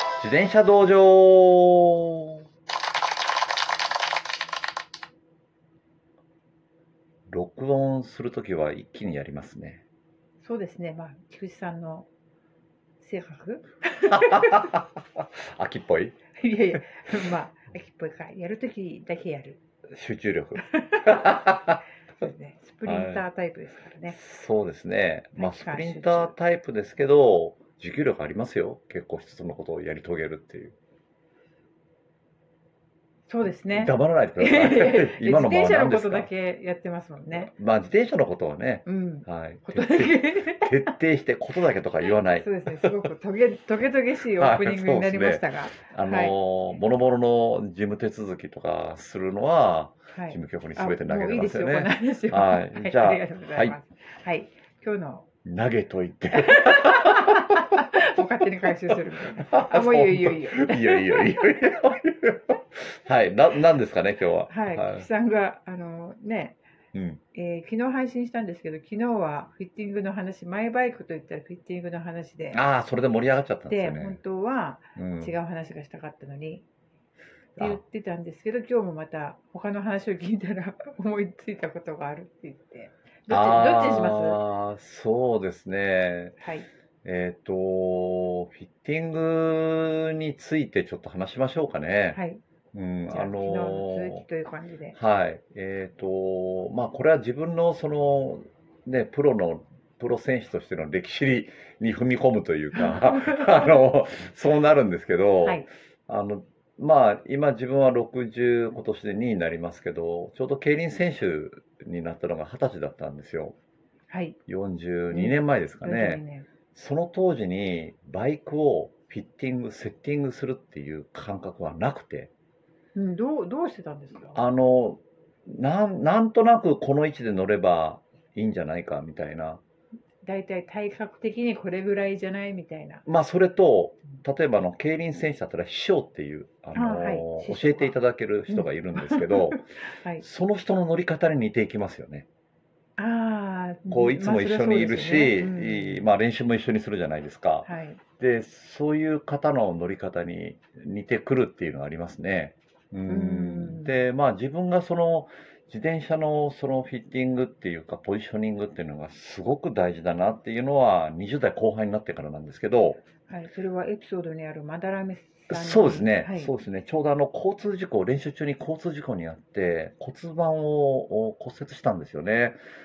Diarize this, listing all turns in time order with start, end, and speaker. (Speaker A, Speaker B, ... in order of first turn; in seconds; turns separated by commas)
Speaker A: 0.2-2.4, Speaker A: 7.3-9.8, Speaker B: 10.4-12.1, Speaker B: 13.0-14.7, Speaker A: 14.1-16.2, Speaker B: 16.4-19.6, Speaker A: 19.9-21.8, Speaker B: 20.8-21.4, Speaker B: 22.2-24.1, Speaker A: 22.8-23.2, Speaker A: 24.1-30.7, Speaker B: 25.4-26.3, Speaker B: 33.3-37.5, Speaker A: 33.7-36.3, Speaker A: 37.3-42.9, Speaker B: 38.8-40.9, Speaker B: 42.4-46.3, Speaker A: 44.3-53.7, Speaker B: 50.1-55.3, Speaker A: 55.4-57.4, Speaker B: 56.3-61.5, Speaker A: 59.5-65.1, Speaker B: 64.5-66.6, Speaker A: 66.9-67.2, Speaker B: 67.3-72.6, Speaker A: 72.5-74.2, Speaker B: 73.7-76.6, Speaker A: 75.0-75.3, Speaker B: 77.6-84.4, Speaker A: 83.3-86.3, Speaker B: 86.4-86.7, Speaker A: 87.0-92.2, Speaker B: 92.1-92.4, Speaker A: 92.7-94.2, Speaker B: 93.1-95.0, Speaker A: 94.9-113.5, Speaker B: 102.7-103.7, Speaker B: 114.1-114.4, Speaker A: 114.5-116.2, Speaker B: 115.1-116.5, Speaker A: 116.7-122.3, Speaker B: 122.9-124.4, Speaker A: 124.3-129.6, Speaker B: 130.2-133.0, Speaker A: 133.1-139.6, Speaker B: 136.7-137.9, Speaker B: 138.5-140.2, Speaker A: 140.2-142.3, Speaker B: 143.0-146.1, Speaker A: 143.9-163.0, Speaker B: 147.6-148.0, Speaker B: 153.1-153.9, Speaker B: 163.3-166.5, Speaker A: 165.5-172.6